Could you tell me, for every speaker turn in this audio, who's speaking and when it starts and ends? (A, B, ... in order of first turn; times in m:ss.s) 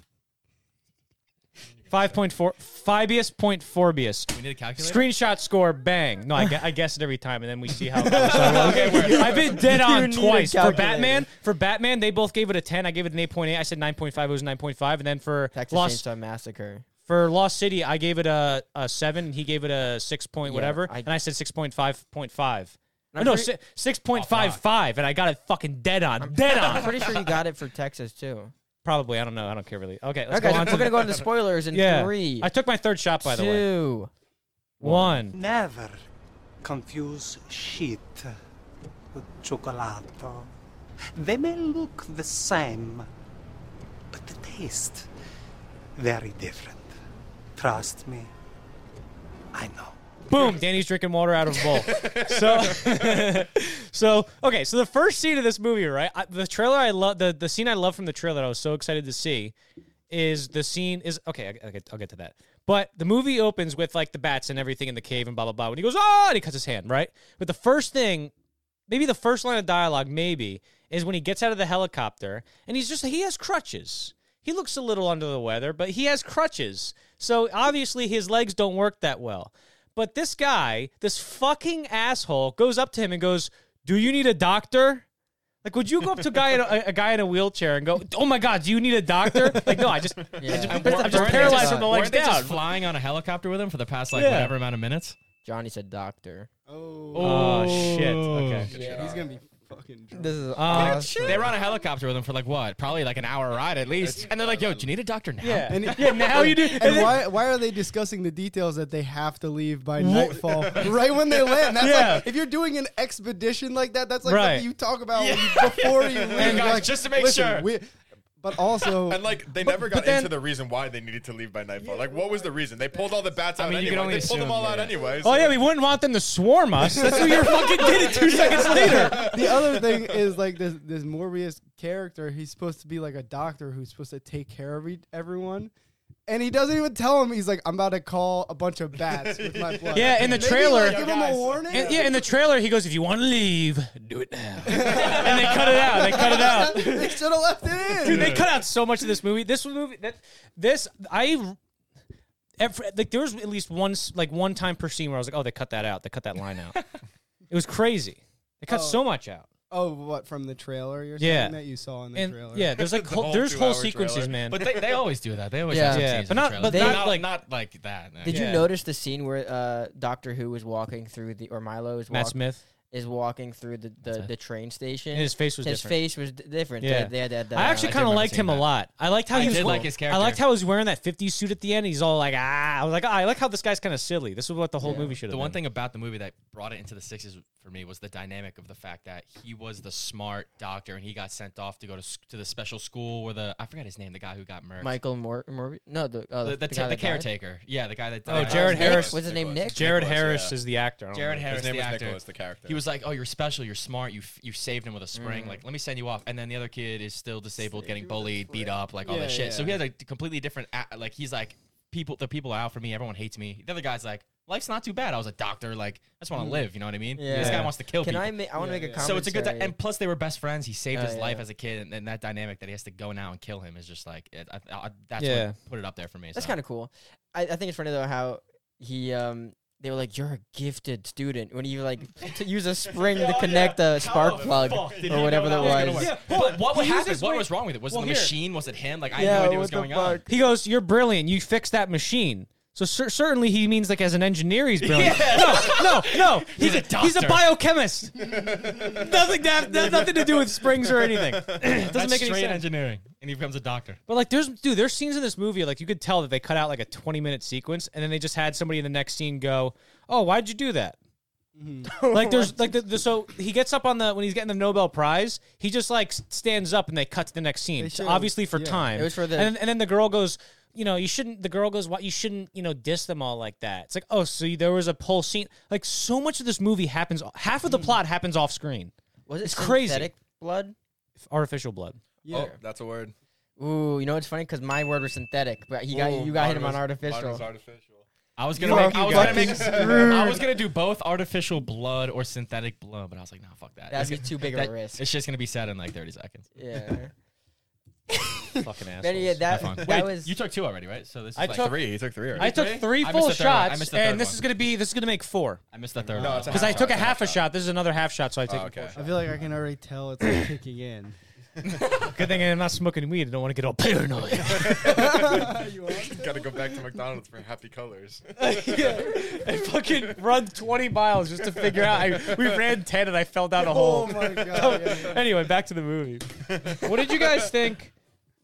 0:01.9-0:02.1 A
0:01.9-0:16.0 B
0:04.3-0:05.0 C
0:08.0-0:09.5 C
0:08.1-0:11.2 D
0:15.5-0:16.8 D
0:17.0-0:27.0 B
0:20.4-0:21.1 D
0:23.1-0:23.5 D
0:24.1-0:24.6 C
0:26.2-0:28.5 D
0:28.8-0:33.7 B
0:30.3-0:32.5 D
0:30.5-0:31.0 A
0:33.2-0:34.1 D
0:34.8-0:35.4 B
0:34.8-0:35.2 D
0:35.3-0:36.0 E
0:36.6-0:38.3 E
0:39.1-0:40.5 E
0:41.1-0:43.1 E
0:44.1-0:45.1 E
0:46.0-0:46.9 E
0:47.6-0:48.3 E
0:49.5-0:50.0 E
0:50.3-0:59.5 B
0:51.8-0:53.3 A
1:00.1-1:08.3 B
1:08.9-1:25.0 B
1:25.6-1:32.6 B
1:30.4-1:31.9 D
1:30.4-1:35.2 C
1:34.1-1:34.5 B
1:35.4-1:36.5 D
1:36.7-1:37.8 F
1:37.1-1:38.7 C
1:37.2-1:38.7 B
1:38.5-1:39.3 A
1:38.7-1:41.3 F
1:38.7-1:39.1 D
1:40.1-1:41.5 D
1:40.5-1:41.2 B
1:40.7-1:46.6 C
1:44.0-1:44.9 A
1:45.4-1:47.2 B
1:45.7-1:59.2 F
1:50.0-1:50.8 B
1:51.8-1:52.3 B
1:54.2-1:54.7 B
1:55.1-1:57.7 C
1:56.4-1:56.7 B
1:59.0-2:05.6 A
1:59.6-2:00.3 B
2:01.8-2:02.2 F
2:03.6-2:05.0 C
2:05.2-2:09.3 B
2:06.8-2:15.7 F
2:07.3-2:10.1 A
2:16.3-2:22.1 F
2:19.0-2:22.2 A
2:19.9-2:21.0 B
2:21.7-2:27.2 B
2:24.6-2:28.4 F
2:25.1-2:25.5 A
2:28.0-2:31.6 B
2:28.0-2:28.5 A
2:32.6-2:36.8 B
2:37.5-2:39.5 B
2:38.7-2:39.0 F
2:39.7-2:42.7 F
2:41.2-2:41.6 B
2:42.1-2:44.6 B
2:42.8-2:44.9 A
2:44.5-2:48.5 C
2:45.7-2:47.1 D
2:45.9-2:47.3 B
2:48.2-2:52.4 D
2:48.2-2:48.7 B
2:52.1-2:52.6 B
2:52.9-2:58.1 D
2:54.0-2:54.3 C
2:55.1-2:56.0 B
2:56.8-3:05.6 B
2:57.6-2:58.7 C
2:59.3-3:00.4 C
2:59.3-2:59.9 D
3:04.8-3:05.2 D
3:05.3-3:15.0 C
3:14.8-3:17.3 D
3:16.4-3:19.0 C
3:18.3-3:19.2 B
3:18.3-3:20.6 A
3:18.3-3:19.9 D
3:19.7-3:21.5 B
3:21.1-3:38.3 C
3:21.4-3:22.8 A
3:25.2-3:25.6 D
3:27.6-3:28.2 D
3:29.0-3:29.8 F
3:36.4-3:36.6 D
3:37.2-3:39.7 D
3:37.3-3:37.7 B
3:38.6-3:39.2 F
3:39.0-3:46.6 C
3:40.9-3:41.4 D
3:45.2-3:45.6 B
3:46.3-3:56.1 D
3:53.0-3:55.8 A
3:53.1-4:00.2 C
3:55.6-3:58.3 B
3:59.1-4:00.3 D
4:00.3-4:12.6 B
4:04.8-4:07.5 C
4:08.4-4:09.1 A
4:08.6-4:09.0 F
4:09.7-4:11.7 A
4:11.6-4:14.0 C
4:14.1-4:21.0 B
4:21.6-4:21.9 F
4:21.8-4:22.5 D
4:22.1-4:38.9 B
4:27.8-4:28.9 F
4:28.9-4:29.5 D
4:39.3-4:40.8 D
4:39.4-4:40.1 B
4:41.2-4:42.0 B
4:42.2-4:42.5 F
4:42.3-4:43.1 A
4:42.3-4:42.6 D
4:43.6-4:47.4 D
4:45.9-4:48.0 A
4:48.4-4:56.5 C
4:48.6-4:50.4 D
4:48.7-4:49.5 B
4:49.1-4:50.4 F
4:49.2-4:50.1 A
4:53.9-4:55.0 D
4:56.6-4:57.1 D
4:58.1-5:00.3 D
4:58.6-5:00.0 B
4:59.5-5:04.4 C
5:01.4-5:01.8 B
5:01.4-5:02.5 A
5:02.3-5:05.6 B
5:05.7-5:07.3 C
5:06.1-5:07.4 A
5:06.2-5:09.0 B
5:08.4-5:09.4 A
5:09.0-5:11.2 F
5:12.0-5:15.4 B
5:14.4-5:19.2 A
5:14.8-5:16.8 F
5:18.4-5:27.9 B
5:21.6-5:22.6 A
5:23.6-5:25.2 F
5:24.5-5:25.2 A
5:26.4-5:27.5 A